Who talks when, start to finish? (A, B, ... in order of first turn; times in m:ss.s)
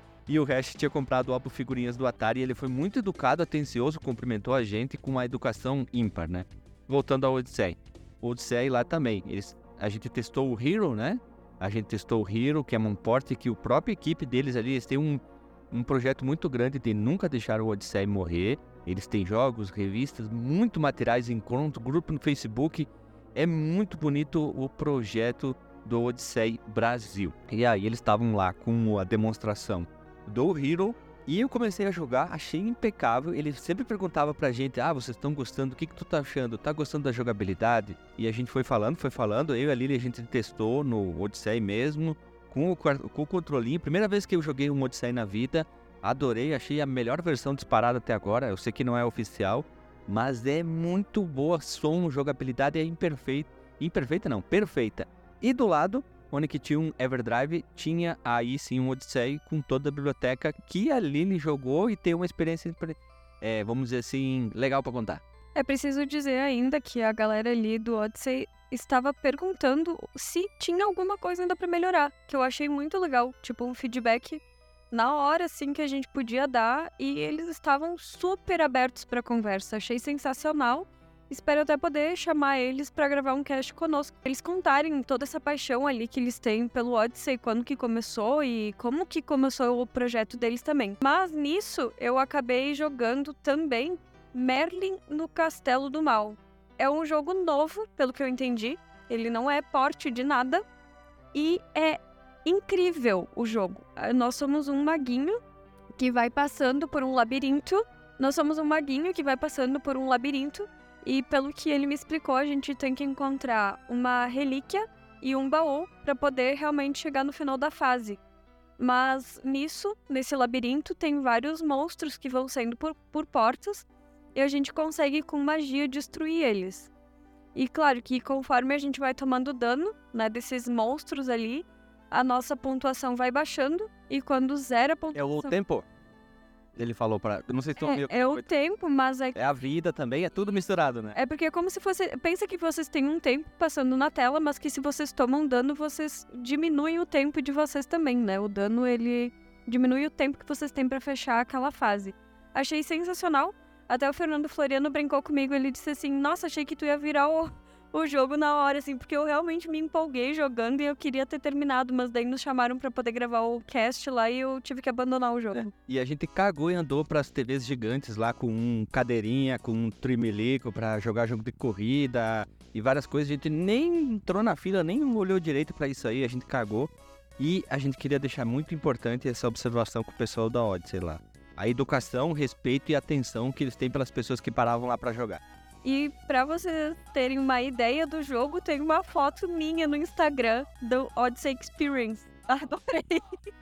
0:00.3-1:05.2 A
1:05.6-1:40.6 B
1:41.3-1:45.4 B
1:46.0-1:58.2 B
1:58.8-2:06.9 B
2:07.6-2:15.5 B
2:15.2-2:15.8 A
2:16.8-2:18.4 A
2:17.8-2:19.4 B
2:19.4-2:21.2 A
2:21.1-2:45.6 B
2:45.6-3:05.4 A
3:05.8-3:13.3 B